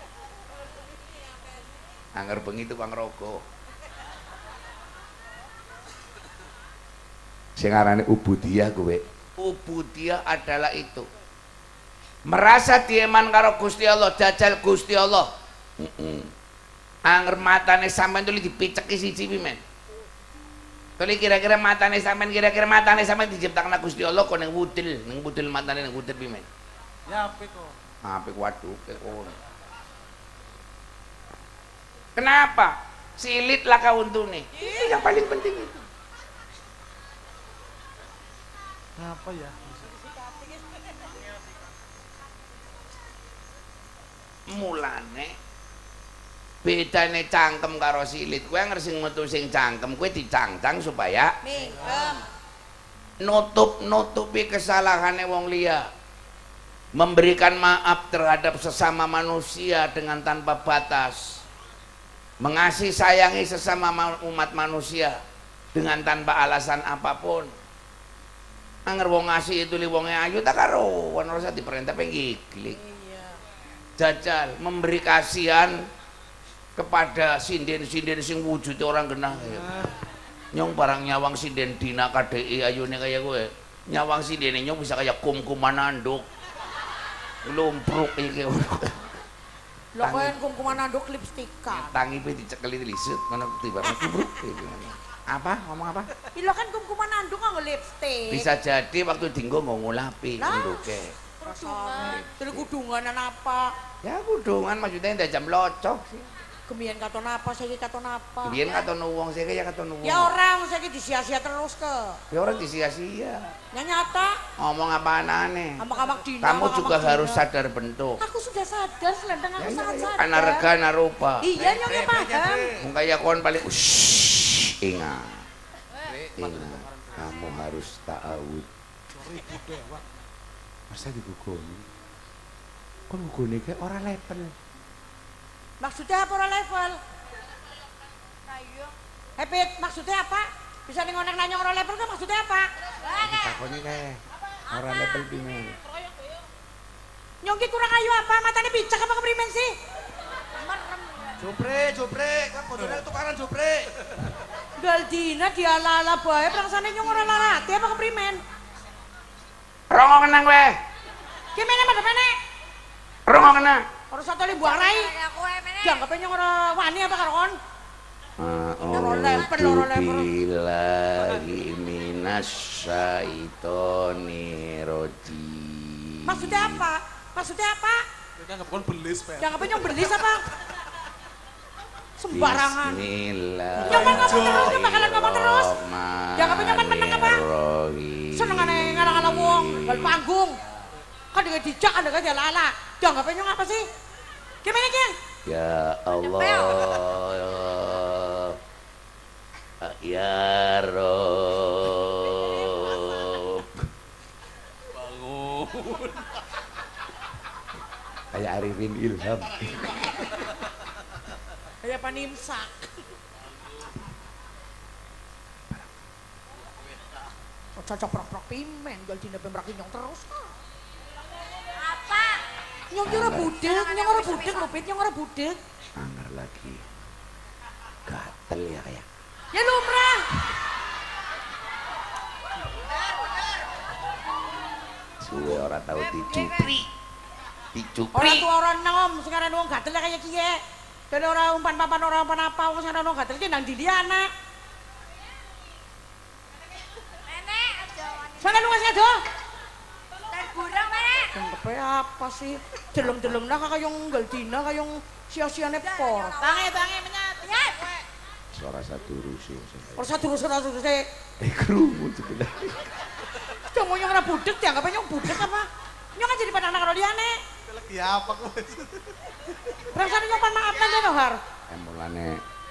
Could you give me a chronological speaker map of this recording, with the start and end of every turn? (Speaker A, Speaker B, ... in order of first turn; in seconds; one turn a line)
Speaker A: 2.1-3.4
Speaker A: 7.6-11.1
Speaker A: 12.2-16.3
Speaker A: 17.1-19.6
Speaker A: 21.0-26.5
Speaker B: 27.1-27.8
Speaker A: 28.0-29.4
Speaker A: 32.1-35.7
Speaker C: 34.5-35.0
Speaker B: 39.0-39.9
Speaker C: 39.9-40.8
Speaker A: 44.5-45.4
Speaker A: 46.6-51.4
Speaker C: 51.4-52.2
Speaker D: 51.7-52.1
Speaker B: 51.8-52.2
Speaker A: 53.2-55.9
Speaker A: 57.0-61.4
Speaker A: 62.4-65.2
Speaker A: 65.7-67.5
Speaker A: 68.9-72.8
Speaker C: 72.7-73.4
Speaker A: 74.0-75.9
Speaker A: 76.8-79.8
Speaker B: 79.3-80.0
Speaker A: 80.5-86.2
Speaker A: 87.4-89.2
Speaker C: 89.9-91.9
Speaker A: 90.0-90.8
Speaker A: 91.7-96.1
Speaker C: 96.3-98.5
Speaker A: 98.3-101.2
Speaker C: 100.4-103.7
Speaker D: 101.4-102.2
Speaker A: 102.0-102.7
Speaker A: 104.0-106.3
Speaker C: 106.7-108.8
Speaker A: 108.4-110.3
Speaker C: 110.0-112.2
Speaker A: 112.3-113.5
Speaker C: 113.7-114.4
Speaker A: 114.6-115.8
Speaker C: 115.8-117.5
Speaker A: 116.4-118.2
Speaker C: 118.2-120.7
Speaker A: 119.6-121.5
Speaker C: 121.4-122.7
Speaker B: 121.6-122.9
Speaker A: 122.8-125.5
Speaker B: 126.1-127.3
Speaker A: 126.4-128.7
Speaker B: 129.1-130.1
Speaker A: 130.9-131.8
Speaker A: 133.1-134.5
Speaker C: 135.8-137.0
Speaker D: 138.5-138.9
Speaker C: 139.4-142.7
Speaker D: 143.0-143.6
Speaker A: 143.2-145.8
Speaker D: 144.7-146.4
Speaker C: 147.4-149.7
Speaker D: 150.6-151.4
Speaker B: 151.4-154.4
Speaker C: 154.8-158.4
Speaker A: 159.9-160.8
Speaker C: 161.5-162.4
Speaker A: 163.3-163.9
Speaker C: 164.1-165.1
Speaker D: 164.5-166.1
Speaker C: 165.8-167.6
Speaker A: 168.4-176.9
Speaker C: 168.9-170.3
Speaker C: 176.2-178.0
Speaker B: 178.4-180.8
Speaker C: 179.4-180.4
Speaker C: 182.2-183.0
Speaker A: 182.3-190.2
Speaker C: 183.8-185.7
Speaker B: 183.8-184.8
Speaker C: 186.4-187.4
Speaker C: 188.3-190.6
Speaker C: 191.3-193.9
Speaker C: 194.6-195.2
Speaker A: 195.5-198.6
Speaker D: 196.2-197.0
Speaker A: 199.8-203.8
Speaker B: 204.9-206.2
Speaker A: 208.3-210.3
Speaker C: 211.8-212.9
Speaker C: 217.8-220.5
Speaker D: 221.8-222.4
Speaker C: 222.9-225.6
Speaker A: 223.0-223.5
Speaker D: 223.3-224.7
Speaker A: 226.0-226.8
Speaker A: 228.1-229.1
Speaker C: 229.5-230.4
Speaker A: 235.2-236.9
Speaker D: 235.3-236.8
Speaker A: 237.7-238.5
Speaker C: 238.1-244.3
Speaker D: 247.2-248.9
Speaker C: 248.4-249.2
Speaker D: 250.3-251.3
Speaker C: 251.3-256.4
Speaker A: 253.0-253.4
Speaker D: 255.8-258.0
Speaker A: 258.5-260.2
Speaker C: 260.0-261.0
Speaker A: 261.4-263.2
Speaker C: 263.6-267.4
Speaker B: 267.6-269.8
Speaker C: 269.9-271.4
Speaker A: 271.7-272.4